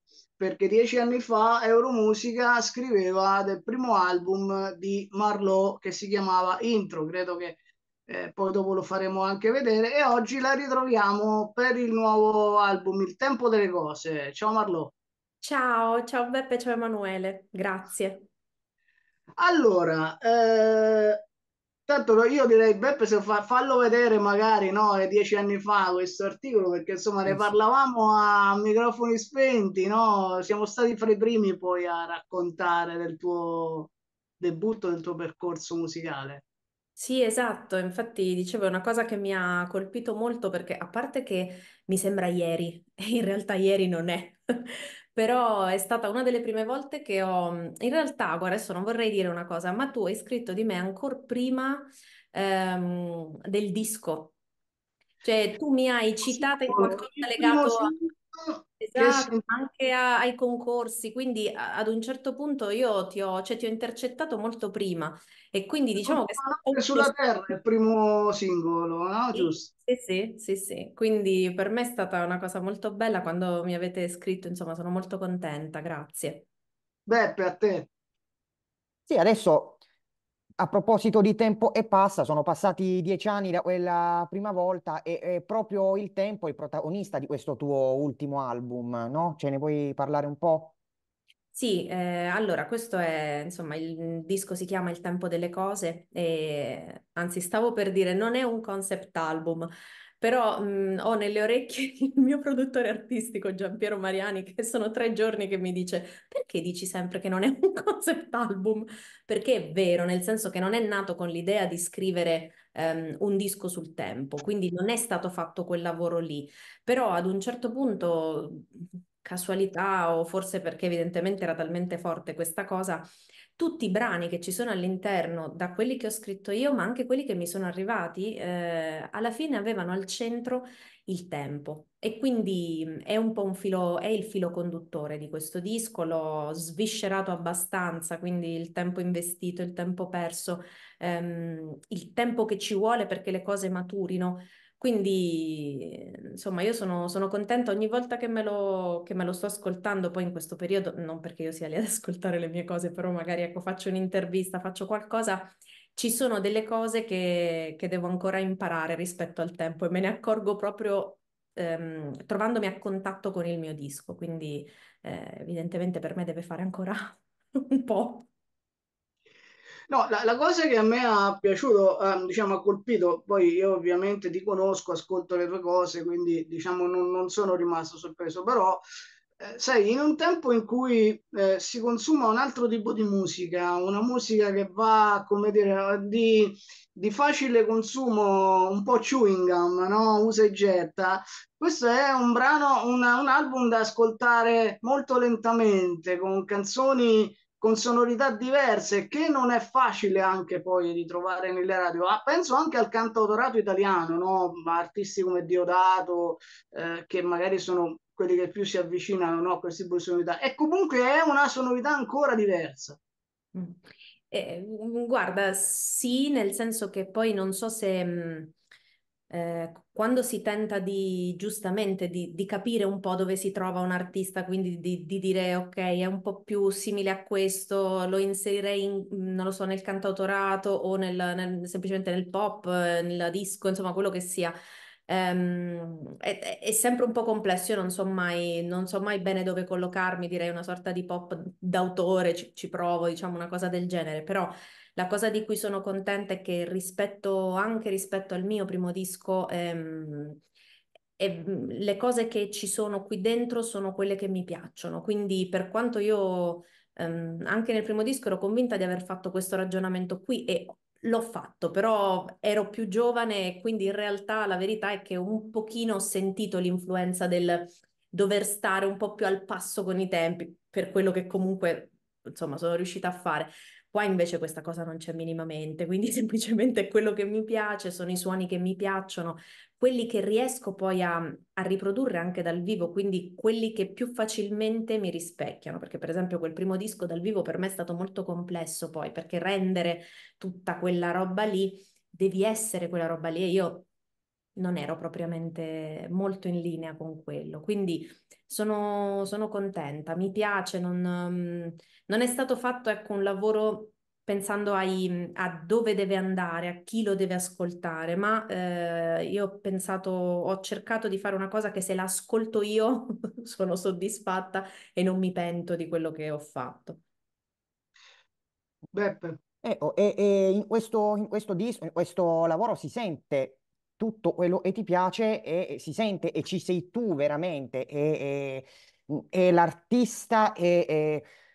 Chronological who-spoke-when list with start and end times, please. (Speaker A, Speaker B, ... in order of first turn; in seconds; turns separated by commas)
Speaker A: 0.4-14.9, Speaker B: 15.4-18.3, Speaker A: 19.4-21.2, Speaker A: 21.9-36.4, Speaker B: 37.0-54.3, Speaker B: 55.2-57.9, Speaker A: 56.3-59.4, Speaker B: 58.8-67.2, Speaker A: 66.0-69.7, Speaker B: 69.3-76.5, Speaker A: 77.1-77.9, Speaker C: 79.1-79.8, Speaker C: 80.6-90.7, Speaker B: 91.5-99.7, Speaker B: 100.2-168.3, Speaker A: 169.9-178.8, Speaker A: 179.4-213.0, Speaker B: 213.5-218.5, Speaker B: 219.3-234.6, Speaker B: 235.1-250.4, Speaker B: 251.2-293.9, Speaker B: 294.6-317.0, Speaker A: 318.9-319.4, Speaker C: 319.6-331.3